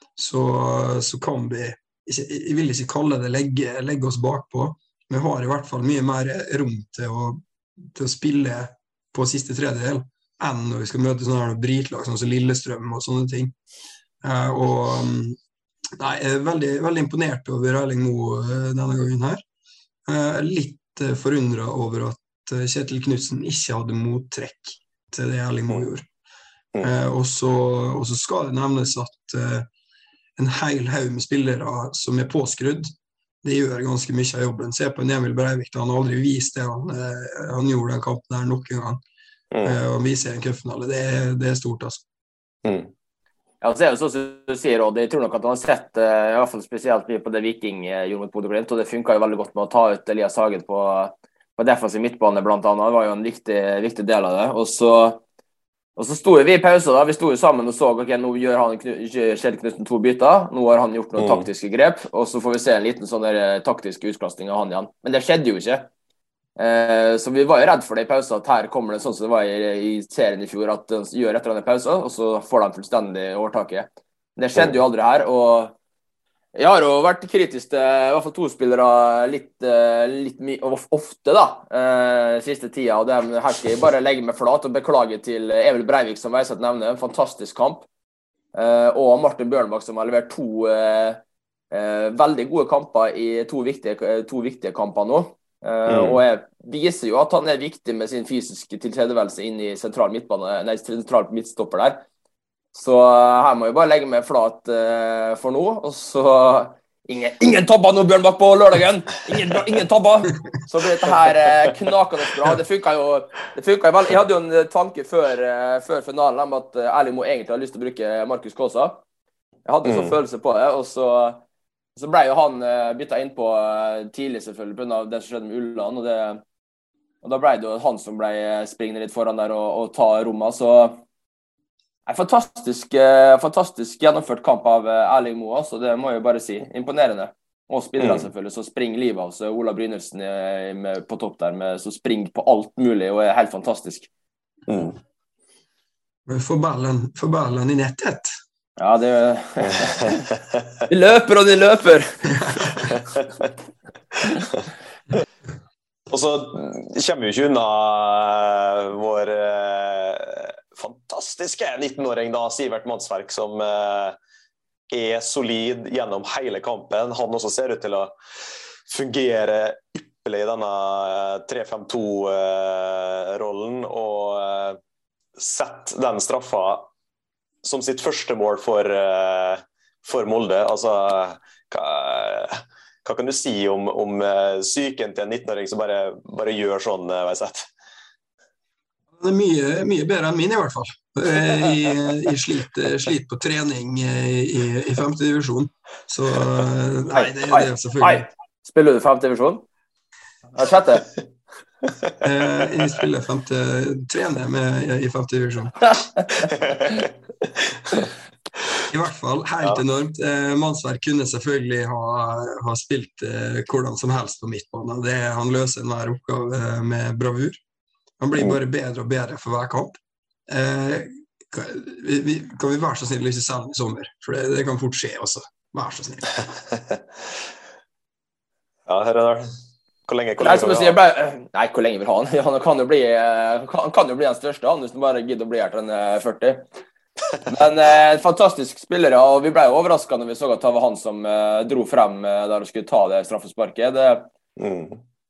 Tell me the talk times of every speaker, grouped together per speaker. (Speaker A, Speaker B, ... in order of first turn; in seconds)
Speaker A: 0.1-13.5, 14.2-15.4, 16.0-19.4, 20.1-26.1, 26.8-29.7, 30.4-32.9, 33.4-39.0, 39.6-42.0, 146.3-148.3, 152.4-152.9, 189.2-198.3, 202.2-205.8, 208.9-217.6, 218.2-226.3
Speaker B: 39.5-39.8, 42.6-42.9, 61.2-61.5, 95.9-96.2, 119.8-120.1, 138.0-138.3, 144.7-145.0, 156.1-164.2, 164.9-168.1, 168.9-174.8, 175.4-176.9, 177.6-187.7, 206.6-207.0, 228.9-229.5, 230.1-231.0, 244.6-245.0
Speaker C: 43.6-55.2, 56.0-65.9, 66.6-75.8, 76.5-87.9, 88.5-91.2, 91.7-102.0, 102.7-119.0, 119.6-121.4, 122.0-126.4, 127.2-131.0, 132.1-144.1, 148.8-150.3, 150.9-152.9, 197.1-199.6, 200.5-201.1, 205.9-206.5, 230.4-236.7, 237.4-244.3